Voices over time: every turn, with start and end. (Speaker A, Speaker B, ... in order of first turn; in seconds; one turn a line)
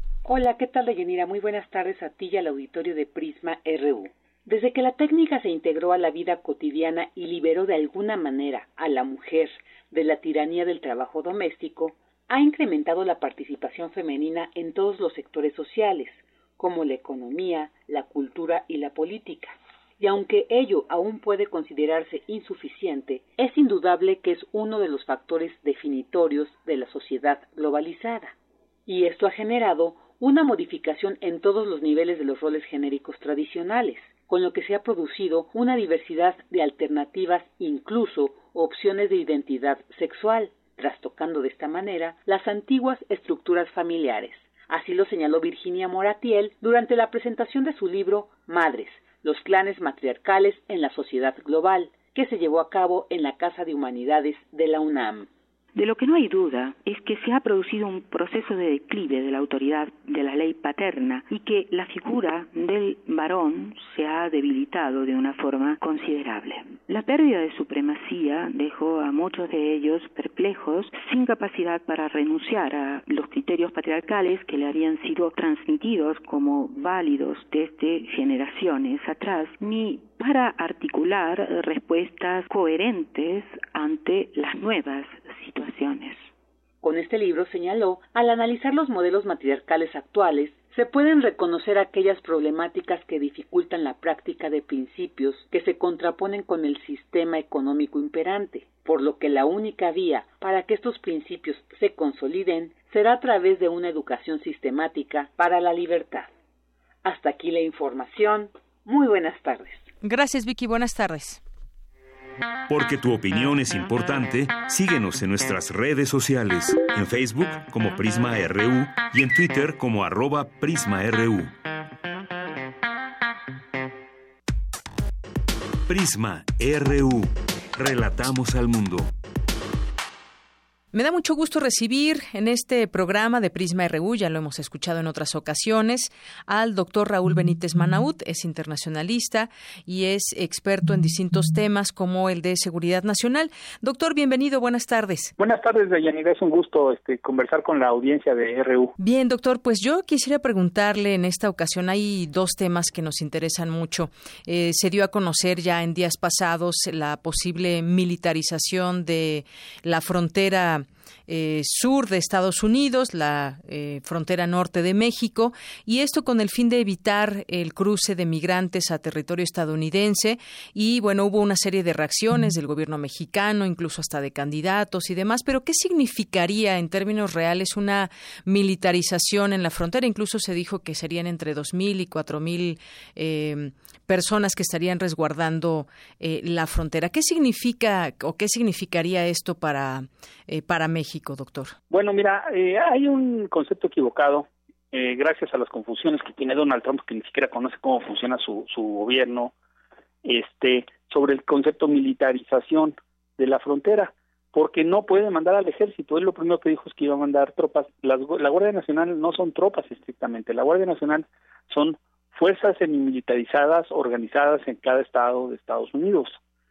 Speaker A: 0.2-28.3
Speaker A: 28.9-55.3
Speaker B: 55.8-86.3
Speaker A: 86.8-106.3
Speaker A: 107.0-109.8
Speaker C: 110.0-111.4
Speaker D: 112.7-121.5
Speaker D: 125.9-129.1
Speaker C: 130.9-145.3
Speaker E: 145.4-148.9
Speaker C: 149.0-191.7
Speaker E: 191.9-199.5
Speaker E: 200.2-216.4